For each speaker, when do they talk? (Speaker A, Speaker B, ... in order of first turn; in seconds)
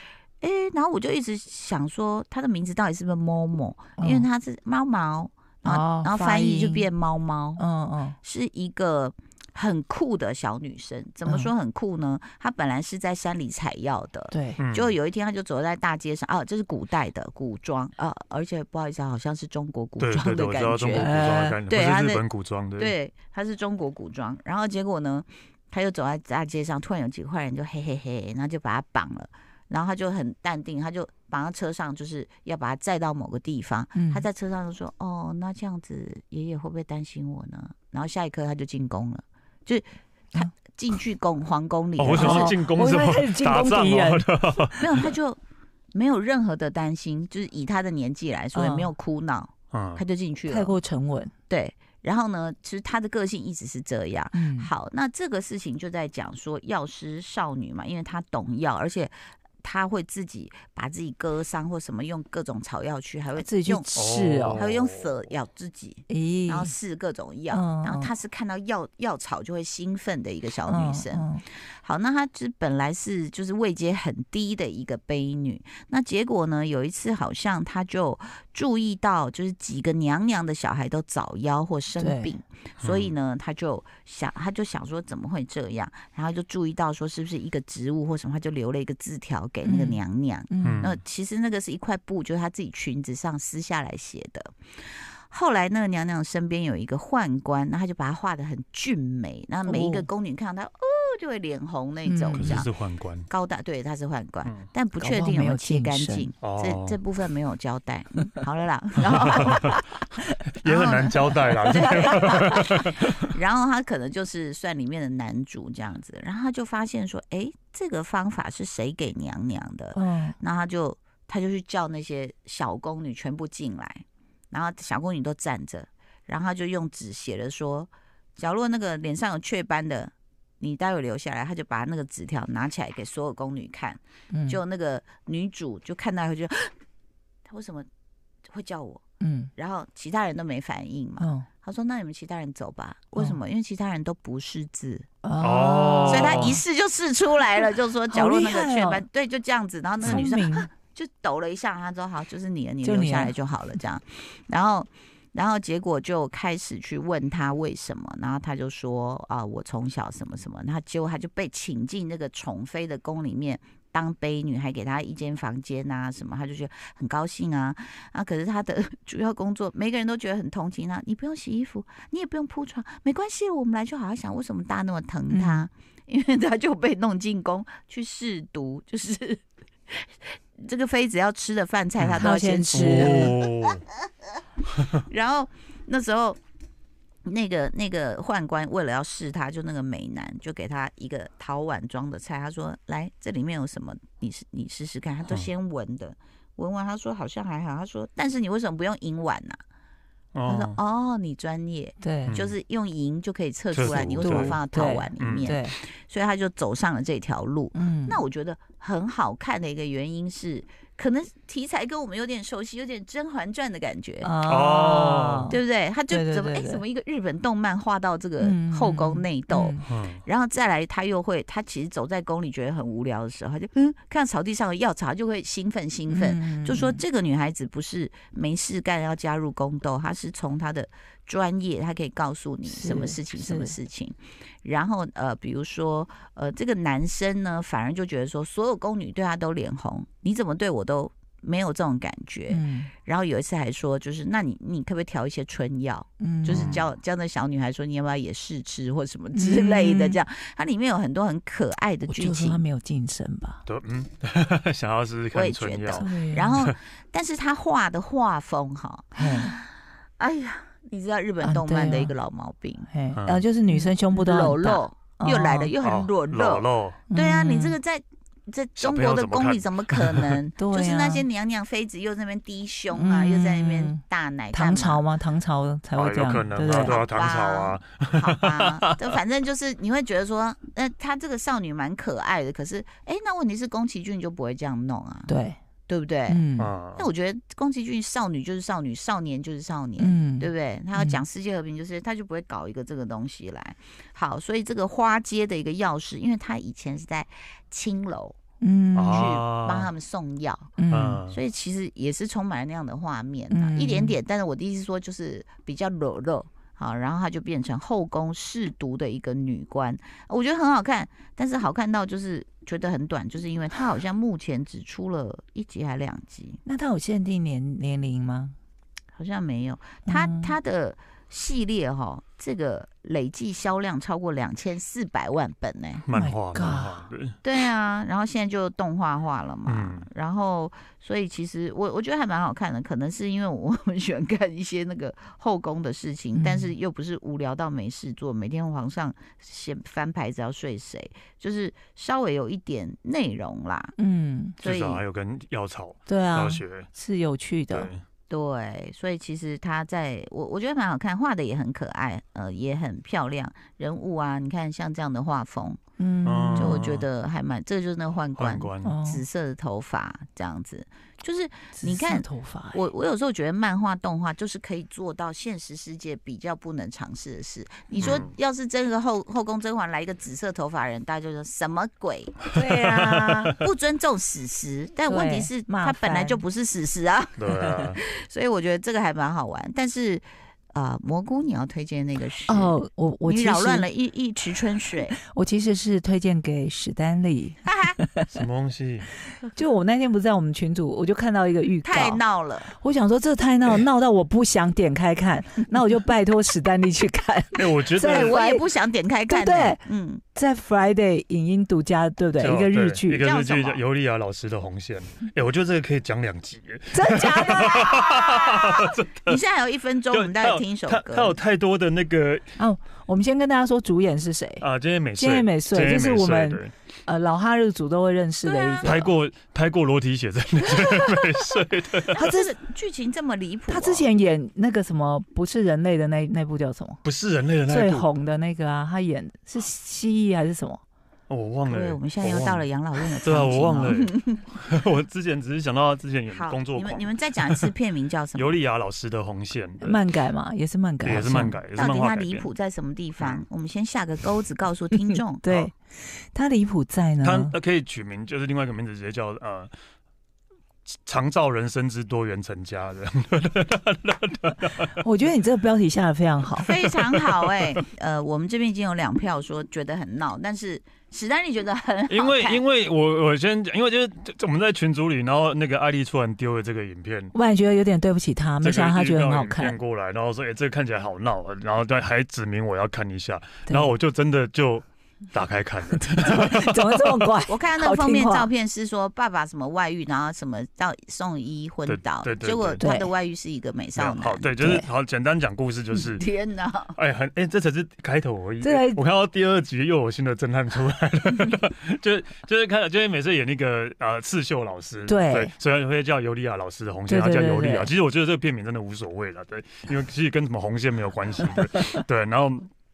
Speaker A: 0.4-7.6, 8.2-42.6, 44.8-45.4, 45.9-50.8, 51.5-63.9, 64.5-94.6, 95.3-102.7, 103.3-109.8, 110.6-136.7, 137.5-137.9, 138.5-139.0, 139.6-145.1, 146.1-180.1, 180.6-183.7, 185.1-186.4, 187.3-199.6, 200.5-214.3, 215.5-252.6, 255.3-262.9, 263.7-275.1, 276.7-285.3, 285.9-286.4, 287.0-298.4, 299.0-316.6, 319.1-326.0, 327.4-343.9, 344.6-345.0, 348.3-355.8, 356.6-385.2, 387.6-388.0, 391.8-392.7, 398.0-400.2, 403.2-403.8, 407.6-408.8, 409.3-411.4, 418.5-418.9, 422.1-424.1, 431.7-434.4, 436.3-438.6, 441.7-445.5, 456.6-462.6, 477.5-484.6, 486.1-486.9
Speaker B: 4.0-4.3, 5.7-6.9, 7.6-8.2, 14.3-14.6, 20.9-21.6, 34.0-34.2, 42.1-44.3, 48.5-48.9, 50.5-51.3, 54.3-54.7, 63.4-64.6, 66.1-66.7, 67.5-68.1, 70.7-71.4, 82.0-82.3, 89.6-90.9, 99.7-100.1, 102.1-102.6, 105.0-106.3, 109.3-109.8, 120.0-120.4, 134.3-134.6, 139.2-139.5, 141.2-141.5, 145.2-146.6, 148.1-149.0, 150.0-150.7, 152.8-153.3, 175.3-175.7, 182.2-183.3, 202.0-202.4, 204.2-205.7, 207.7-208.2, 214.2-215.6, 216.1-216.8, 218.4-219.8, 226.1-227.0, 232.7-233.7, 242.5-242.9, 246.2-246.8, 249.3-250.2, 252.1-253.6, 255.9-256.7, 259.2-259.5, 261.4-262.1, 262.9-265.7, 267.1-267.8, 270.6-271.2, 272.9-274.0, 274.5-277.0, 285.3-285.6, 286.3-286.7, 290.0-291.2, 298.6-299.3, 300.8-301.2, 303.5-304.2, 316.6-318.6, 320.1-320.5, 326.1-327.0, 336.4-336.7, 344.0-344.6, 346.1-347.9, 356.0-356.9, 358.8-359.2, 361.8-362.8, 372.5-373.5, 375.1-376.4, 382.5-383.9, 385.2-388.3, 389.5-398.6, 399.3-399.8, 400.4-403.2, 406.9-408.0, 412.6-414.6, 415.2-419.1, 422.2-422.5, 423.7-427.0, 427.7-430.8, 439.8-441.6, 445.4-447.6, 455.0-456.7, 467.3-469.8, 473.7-473.9, 475.9-478.5, 482.8-483.1, 484.6-484.9, 488.6-489.0, 495.1-495.5, 497.1-497.9
Speaker C: 14.6-14.9, 20.0-22.9, 42.0-45.1, 49.7-50.0, 64.0-65.1, 82.8-83.1, 90.6-91.0, 102.4-103.3, 106.4-107.0, 109.1-109.8, 110.6-113.2, 145.4-146.6, 150.0-150.3, 182.0-183.8, 184.8-185.0, 200.3-200.8, 202.3-202.6, 203.7-204.6, 205.2-205.5, 214.5-215.5, 219.9-220.2, 246.5-246.8, 253.7-256.7, 263.2-263.5, 265.8-267.0, 268.8-270.4, 276.0-279.0, 286.6-287.1, 298.9-299.9, 300.9-301.4, 326.1-327.4, 329.7-330.1, 344.6-346.9, 347.7-348.0, 356.2-357.1, 358.4-359.0, 368.0-368.3, 372.8-373.5, 377.4-378.0, 388.3-389.1, 397.5-398.4, 402.4-409.4, 410.1-412.4, 414.6-416.7, 418.8-422.2, 427.0-428.1, 431.3-432.7, 433.2-437.7, 438.4-440.0, 441.0-442.5, 443.2-443.5, 447.2-449.7, 451.1-455.0, 456.6-457.2, 462.1-467.3, 468.6-477.3, 481.9-482.8, 484.0-486.2, 487.0-502.7